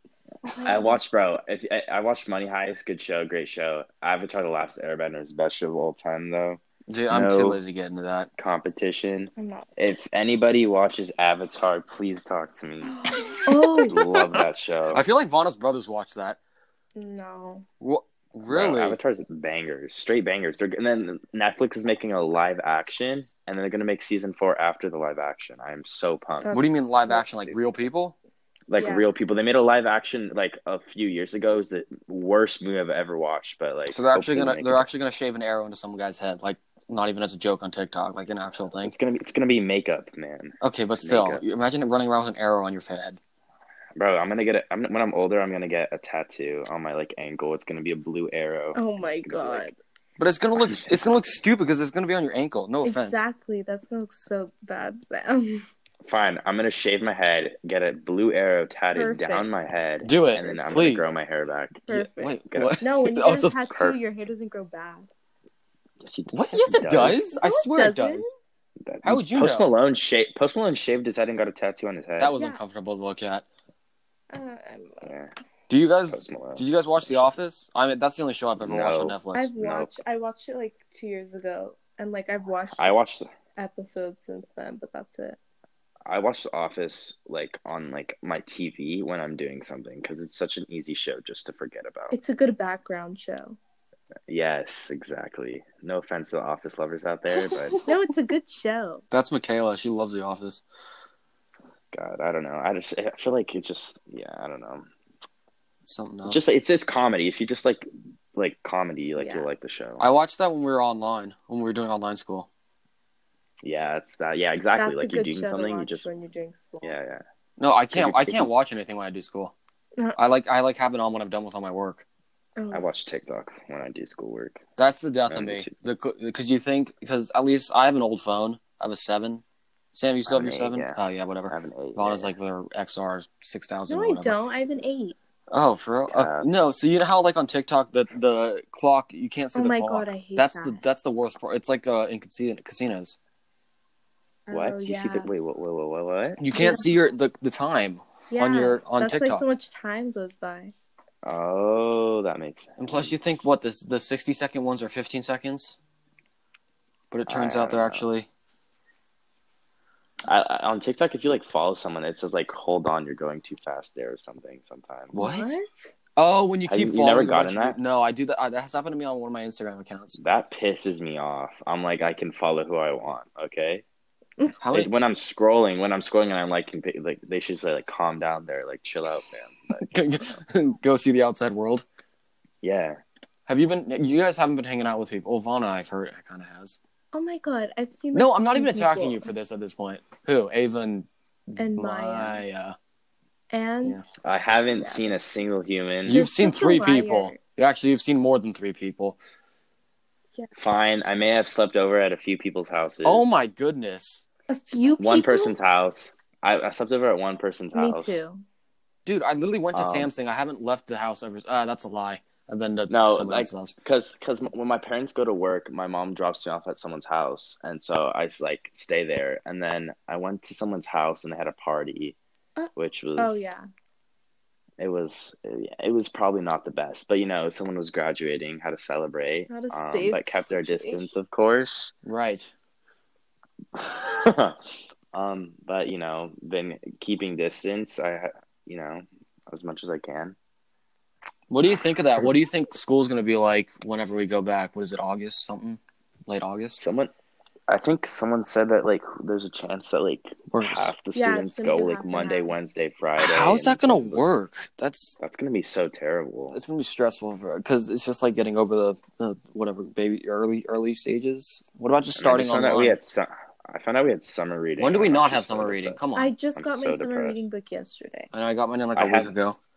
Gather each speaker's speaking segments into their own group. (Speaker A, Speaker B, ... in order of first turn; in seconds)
Speaker A: 0.4-1.0, 9.4-9.7, 13.0-14.4, 16.9-17.7, 26.4-27.3, 28.8-29.1, 48.7-49.7, 52.8-55.7, 58.9-59.5, 61.9-65.1, 67.4-68.3, 74.3-75.1, 79.3-82.9, 83.6-85.4, 92.1-93.6, 97.8-99.0, 109.2-109.5, 114.8-116.9, 122.6-122.8, 133.9-135.2, 139.5-140.8, 144.5-145.3, 146.5-146.8, 148.3-150.7, 165.1-165.7, 187.1-189.3, 191.6-192.4, 193.5-194.1, 196.1-197.4, 204.5-205.5, 207.7-208.4, 222.6-223.7, 229.5-231.1, 251.1-252.6, 266.1-268.3
Speaker B: 0.6-7.6, 8.4-12.9, 13.8-15.0, 18.4-26.6, 28.7-34.9, 38.8-41.4, 44.0-49.7, 50.6-51.0, 56.0-61.9, 62.5-62.8, 63.7-64.0, 66.0-67.2, 68.8-72.3, 75.0-75.3, 76.1-77.4, 78.6-79.9, 82.8-83.3, 86.0-92.1, 94.3-97.8, 101.9-104.9, 106.2-110.1, 113.6-116.1, 116.8-117.2, 117.9-118.5, 122.7-124.6, 125.3-125.7, 130.2-132.3, 136.1-136.5, 144.5-146.4, 151.2-153.4, 157.3-158.1, 160.2-165.2, 166.7-167.8, 170.2-173.8, 174.7-180.4, 182.6-183.0, 194.2-196.2, 200.6-203.4, 205.0-208.2, 209.7-210.1, 212.9-222.2, 222.7-223.5, 224.8-231.9, 233.7-234.6, 235.1-240.3, 246.8-247.1, 247.7-254.3, 255.2-256.6, 262.1-266.0, 266.6-267.4, 268.9-269.3
Speaker C: 6.9-8.3, 14.9-16.4, 17.8-19.0, 26.5-28.1, 33.9-38.9, 40.6-43.2, 50.2-53.2, 60.0-61.1, 61.9-63.5, 66.3-68.3, 69.0-69.7, 72.2-73.5, 75.7-79.5, 99.1-100.6, 105.8-106.4, 110.0-112.5, 117.6-119.5, 120.1-122.0, 124.8-129.4, 129.9-134.4, 135.5-143.2, 146.4-149.4, 152.8-155.8, 157.1-158.3, 165.1-165.6, 166.2-170.2, 174.6-174.9, 179.8-181.8, 183.5-186.8, 188.1-192.8, 196.1-199.2, 203.0-204.2, 209.1-213.8, 232.0-232.5, 241.5-246.8, 250.5-250.9, 253.2-255.2, 256.5-263.0, 264.8-266.3, 268.3-269.6